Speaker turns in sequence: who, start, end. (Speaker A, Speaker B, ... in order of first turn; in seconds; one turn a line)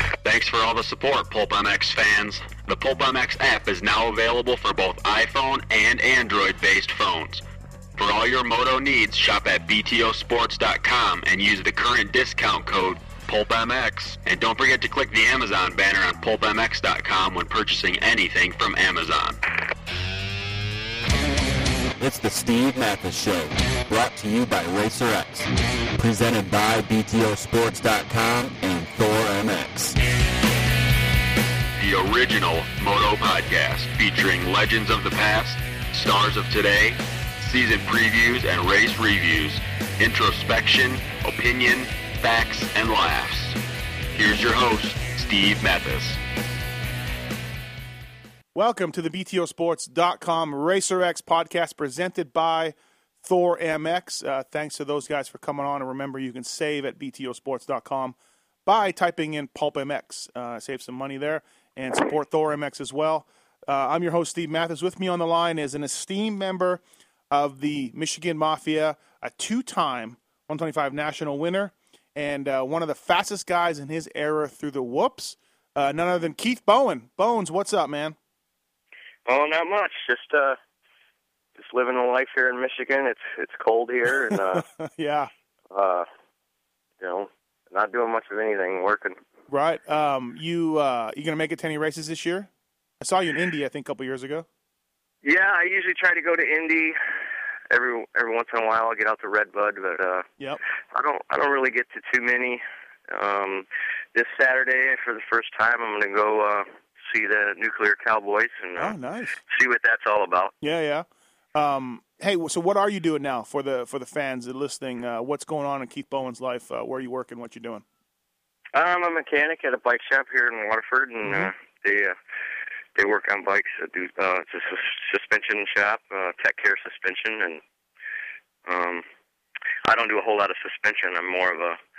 Speaker A: 0.2-7.4
Speaker A: 8.0-19.4
Speaker B: 22.0-30.0
Speaker A: 31.8-43.6
Speaker A: 44.1-46.2
Speaker C: 48.5-78.2
Speaker D: 79.2-80.6
Speaker D: 81.5-84.6
Speaker C: 84.3-85.3
Speaker D: 85.7-86.0
Speaker D: 87.0-89.2
Speaker C: 89.5-92.5
Speaker C: 93.0-94.5
Speaker D: 95.2-97.0
Speaker D: 97.7-100.2
Speaker D: 100.9-109.0
Speaker C: 108.8-109.4
Speaker D: 109.5-110.5
Speaker C: 110.6-117.8
Speaker D: 118.7-122.1
Speaker D: 122.9-127.6
Speaker D: 128.7-129.0
Speaker D: 129.8-131.8